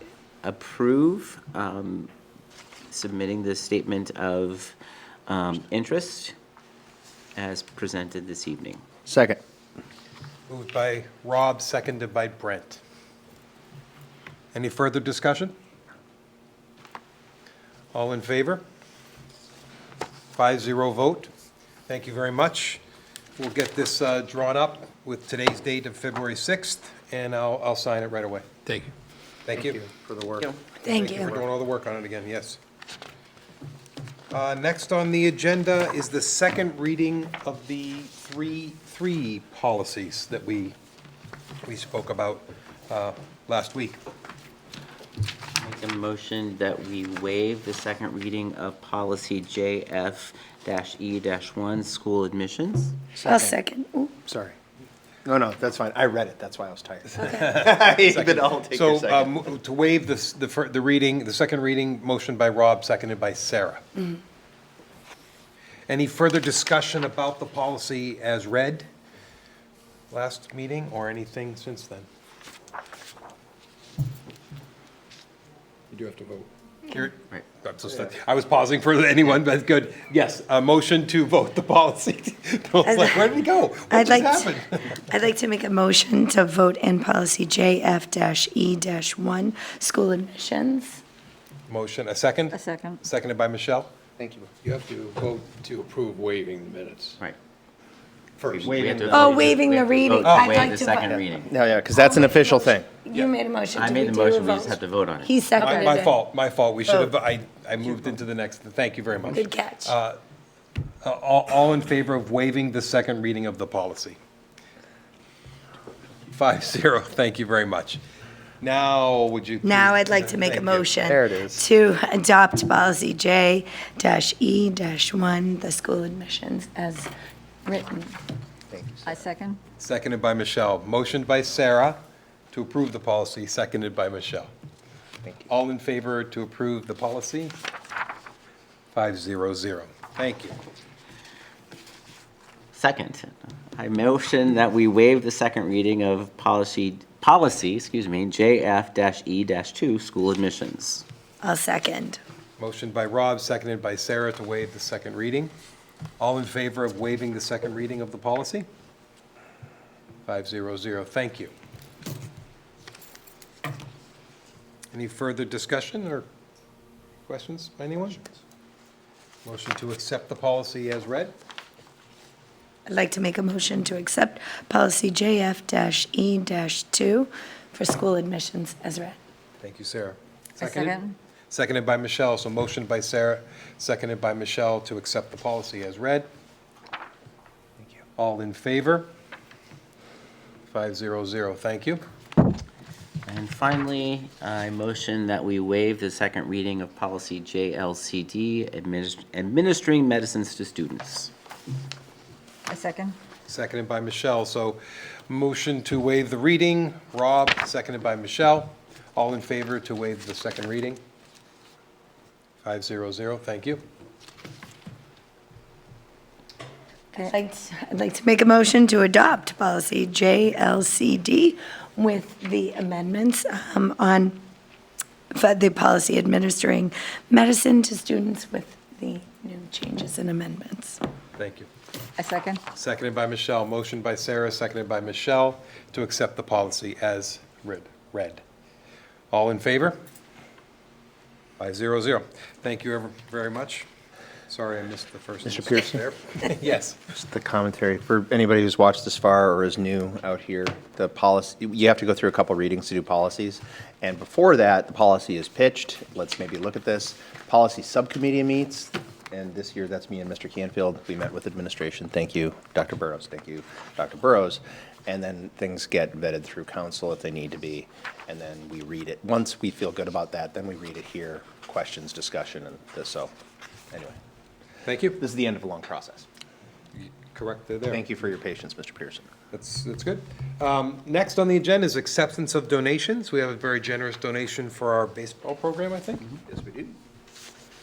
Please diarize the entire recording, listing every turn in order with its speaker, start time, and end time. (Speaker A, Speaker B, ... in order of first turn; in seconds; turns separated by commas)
Speaker A: 0.4-2.1, Speaker A: 2.9-4.8, Speaker A: 5.3-6.3, Speaker A: 7.4-8.8, Speaker B: 9.1-9.4, Speaker C: 10.5-12.8, Speaker C: 14.5-15.5, Speaker C: 17.9-18.6, Speaker C: 20.3-21.3, Speaker C: 21.9-22.8, Speaker C: 23.4-28.7, Speaker C: 29.4-32.6, Speaker D: 30.8-31.3, Speaker C: 34.3-40.7, Speaker C: 41.6-44.0, Speaker A: 45.6-53.0, Speaker B: 53.1-53.5, Speaker D: 53.2-54.2, Speaker B: 54.2-54.5, Speaker B: 55.2-59.3, Speaker C: 57.1-63.8, Speaker C: 65.9-68.9, Speaker C: 70.1-72.1, Speaker E: 75.9-76.5, Speaker C: 76.9-85.0, Speaker D: 82.8-83.3, Speaker D: 83.9-91.0, Speaker C: 91.7-93.9, Speaker F: 92.5-93.0, Speaker B: 94.2-94.5, Speaker E: 94.7-97.2, Speaker B: 98.4-99.6, Speaker A: 98.5-101.5, Speaker D: 99.1-101.2, Speaker C: 100.2-100.7, Speaker B: 101.1-102.9, Speaker D: 101.9-106.1, Speaker A: 103.7-105.4, Speaker C: 105.6-110.2, Speaker F: 105.6-106.1, Speaker D: 109.3-109.9, Speaker C: 111.0-114.2, Speaker C: 116.3-118.0, Speaker C: 118.6-120.9, Speaker D: 119.6-127.1, Speaker B: 121.1-121.6, Speaker D: 127.6-128.2, Speaker B: 128.7-129.2, Speaker F: 129.0-129.6, Speaker C: 129.8-132.0, Speaker C: 132.5-134.5, Speaker C: 135.5-137.5, Speaker C: 138.9-140.5, Speaker A: 142.7-151.0, Speaker D: 151.4-152.2, Speaker C: 152.6-155.5, Speaker C: 156.2-158.7, Speaker C: 160.2-161.5, Speaker C: 164.9-166.3, Speaker C: 167.3-168.2, Speaker C: 169.4-171.3, Speaker D: 172.9-179.2, Speaker C: 179.6-186.3, Speaker F: 180.6-181.1, Speaker C: 188.2-189.1, Speaker C: 190.7-192.0, Speaker A: 193.2-201.3, Speaker F: 202.7-203.2, Speaker C: 203.5-211.0, Speaker C: 212.6-213.8, Speaker D: 217.1-224.4, Speaker D: 225.3-231.0, Speaker C: 231.4-231.7, Speaker F: 232.2-232.6, Speaker C: 232.7-238.4, Speaker C: 239.3-240.0, Speaker C: 241.6-243.9, Speaker C: 244.5-247.0, Speaker B: 245.4-246.0, Speaker B: 247.0-273.3, Speaker B: 273.9-274.2, Speaker C: 274.8-275.2, Speaker B: 275.2-276.2, Speaker C: 277.0-278.0, Speaker B: 277.9-279.3, Speaker C: 279.5-286.3, Speaker B: 286.5-286.9